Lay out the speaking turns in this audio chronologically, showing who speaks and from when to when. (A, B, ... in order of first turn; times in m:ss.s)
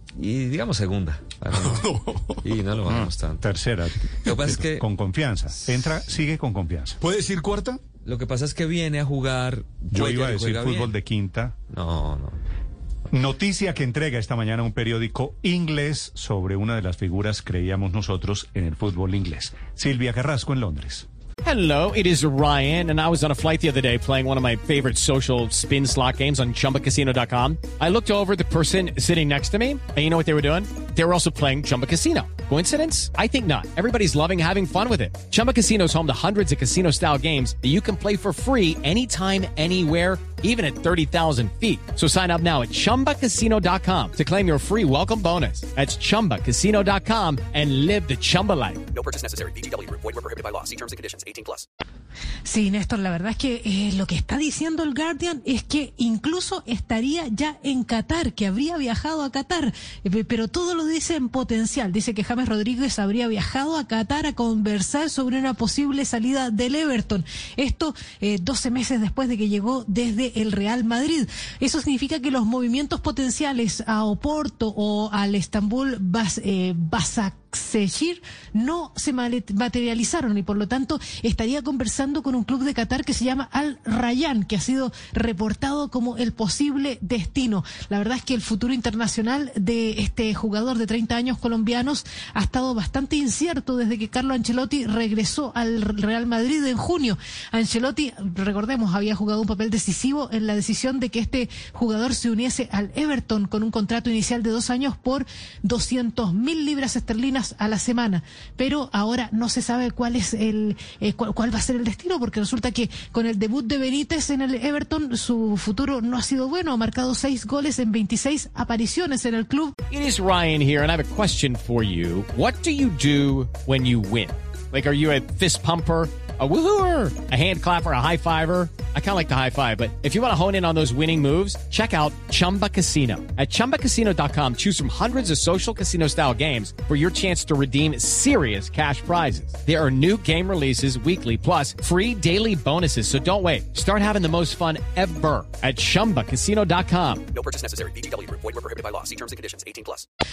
0:00.2-0:01.9 A
0:02.4-0:03.4 A
0:03.4-0:07.1 B
0:04.2-0:04.8 A
0:08.0-0:10.9 A
0:09.9-0:11.6 B
0:11.7-0:12.4 A
0:13.1-0:21.0 B
0:21.4-0:48.8 C
0:48.9-0:51.6 D
0:52.4-1:59.8 E
1:59.9-2:27.2 C
2:27.3-2:30.0 D